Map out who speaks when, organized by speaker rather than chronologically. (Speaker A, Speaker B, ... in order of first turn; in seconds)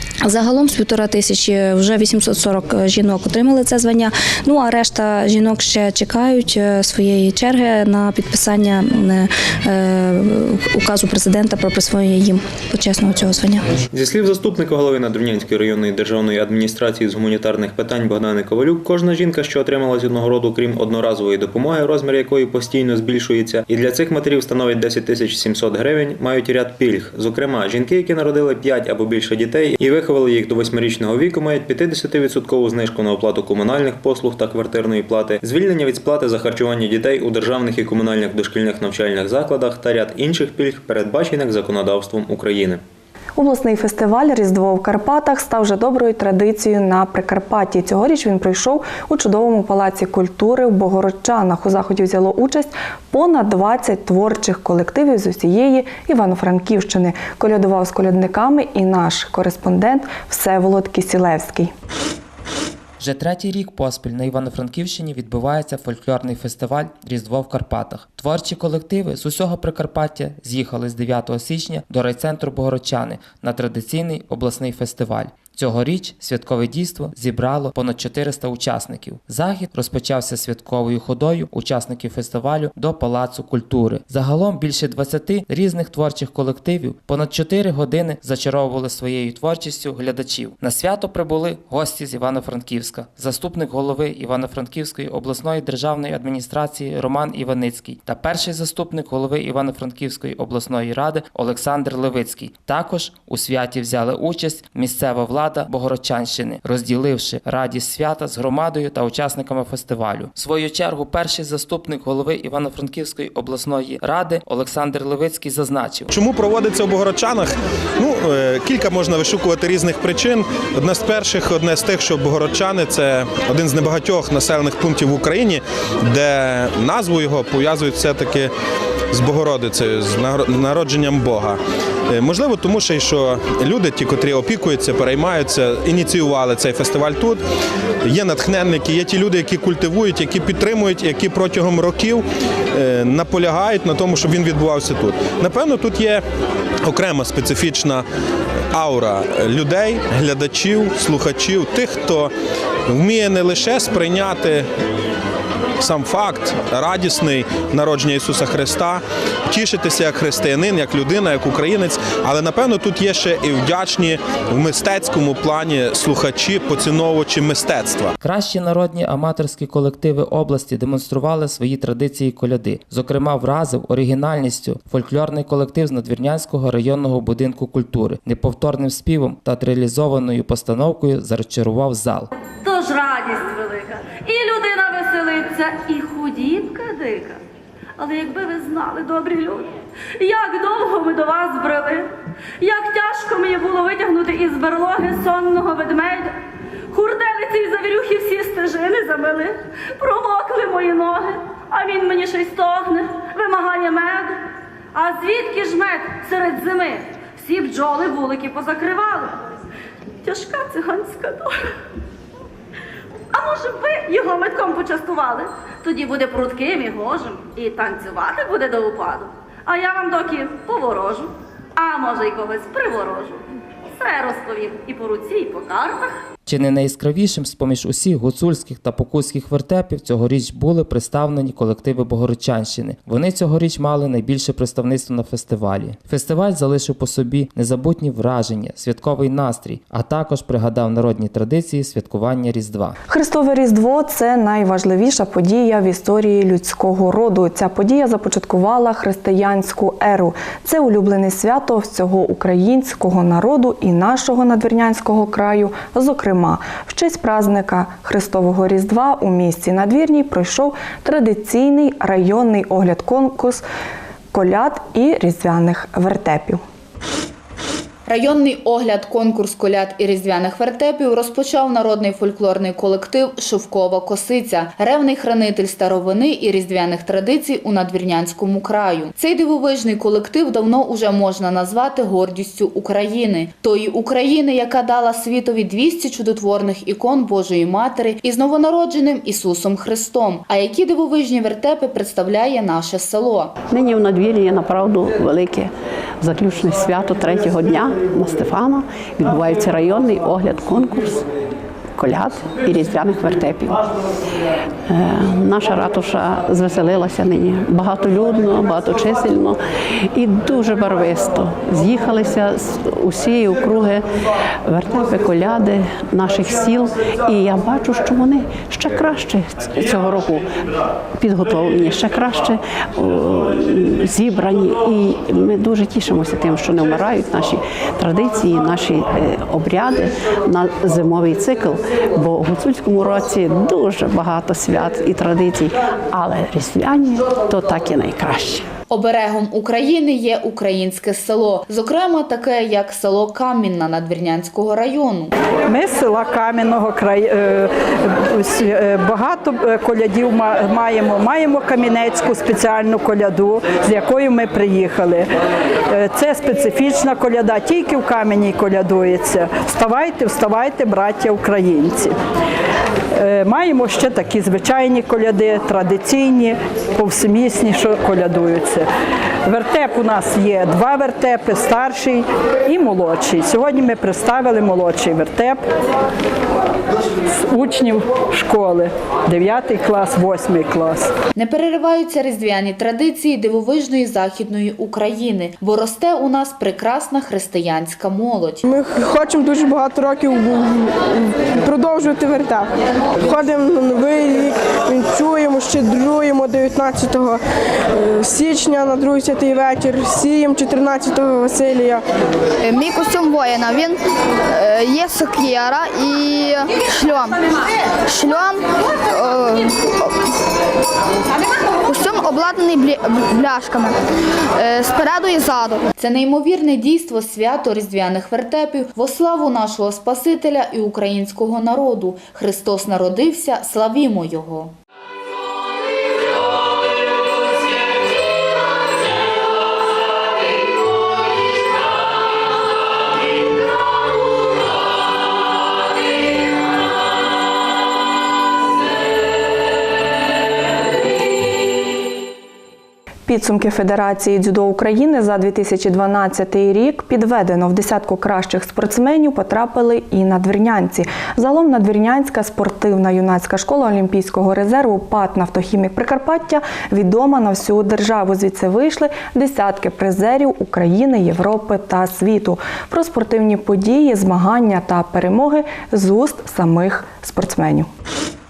Speaker A: 0.2-13.7
Speaker B: 13.9-42.8
Speaker C: 43.4-61.7, 243.1-263.6, 264.3-266.6, 443.3-467.9
Speaker D: 63.0-116.1, 168.2-182.3, 226.4-243.0
Speaker E: 116.1-128.5, 129.1-131.6, 132.1-137.4, 138.1-146.2, 146.8-148.1, 148.7-152.3, 152.9-154.7, 155.8-168.2
Speaker F: 182.6-187.4, 188.0-192.1, 192.6-196.3, 196.9-204.4, 204.9-209.5, 210.2-211.7, 213.3-223.4, 224.0-226.1
Speaker G: 268.1-293.5, 338.9-345.3, 381.4-388.6, 416.0-424.7
Speaker H: 293.7-301.2, 302.0-303.8, 304.9-309.6, 310.1-314.1, 314.7-320.5, 321.2-338.6
Speaker I: 345.7-355.3, 355.9-362.1, 363.1-368.9, 369.5-375.6, 377.3-381.1
Speaker J: 388.7-392.7, 393.2-397.4, 397.9-402.0
Speaker K: 402.6-403.9, 404.6-407.4, 408.1-408.6, 409.1-409.7, 411.9-413.9, 414.6-415.8